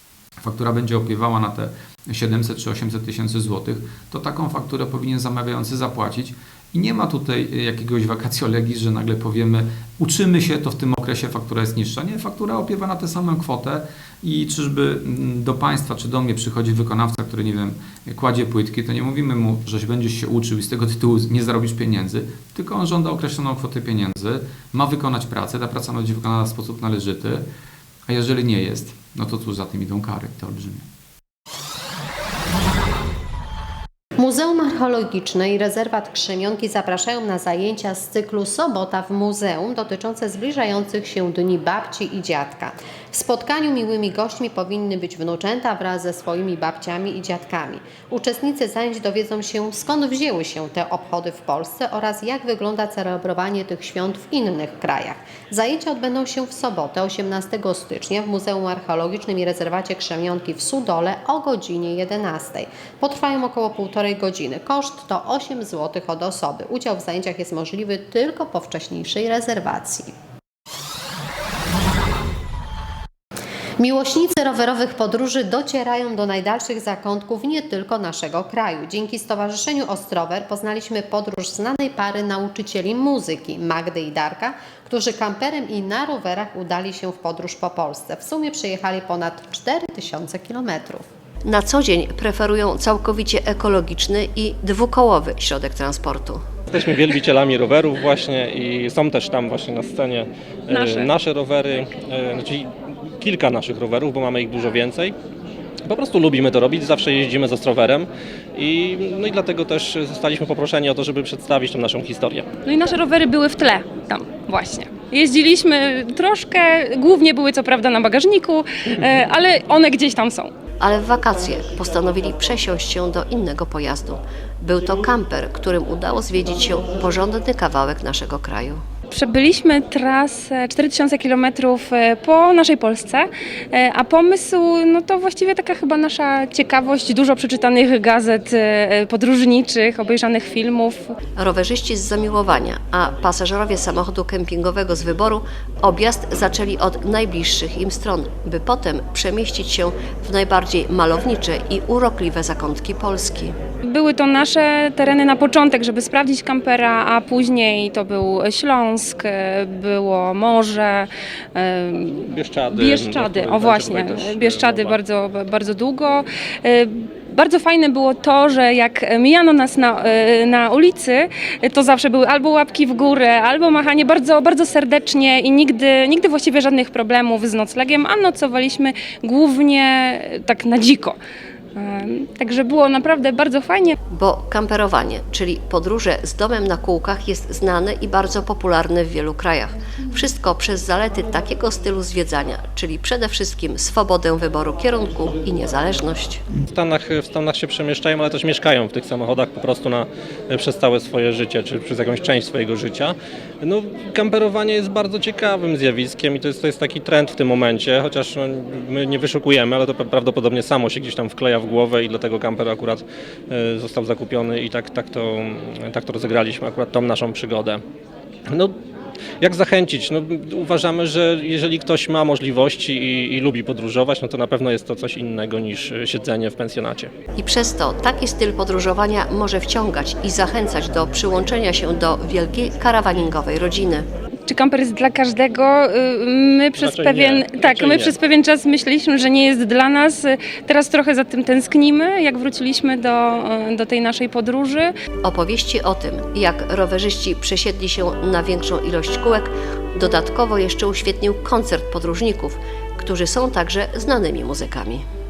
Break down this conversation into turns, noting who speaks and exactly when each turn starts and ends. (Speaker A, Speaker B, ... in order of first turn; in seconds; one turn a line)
Speaker A: 0.4-27.5
Speaker A: 28.1-30.9
Speaker B: 34.2-70.1
Speaker B: 73.8-91.0
Speaker C: 91.4-96.4
Speaker D: 96.7-105.2
Speaker E: 100.7-101.1
Speaker D: 105.9-112.5
Speaker E: 112.7-120.5
Speaker C: 120.8-128.8
Speaker E: 129.1-141.2
Speaker C: 141.4-153.5
Speaker E: 153.9-181.2
Speaker D: 162.3-165.0
Speaker E: 181.8-183.9
Speaker C: 184.1-196.4
Speaker D: 196.7-217.8
Speaker D: 218.5-218.7
Speaker D: 219.4-227.1
Speaker C: 227.4-234.1
Speaker E: 234.5-244.9
Speaker D: 236.8-238.2
Speaker C: 245.2-255.0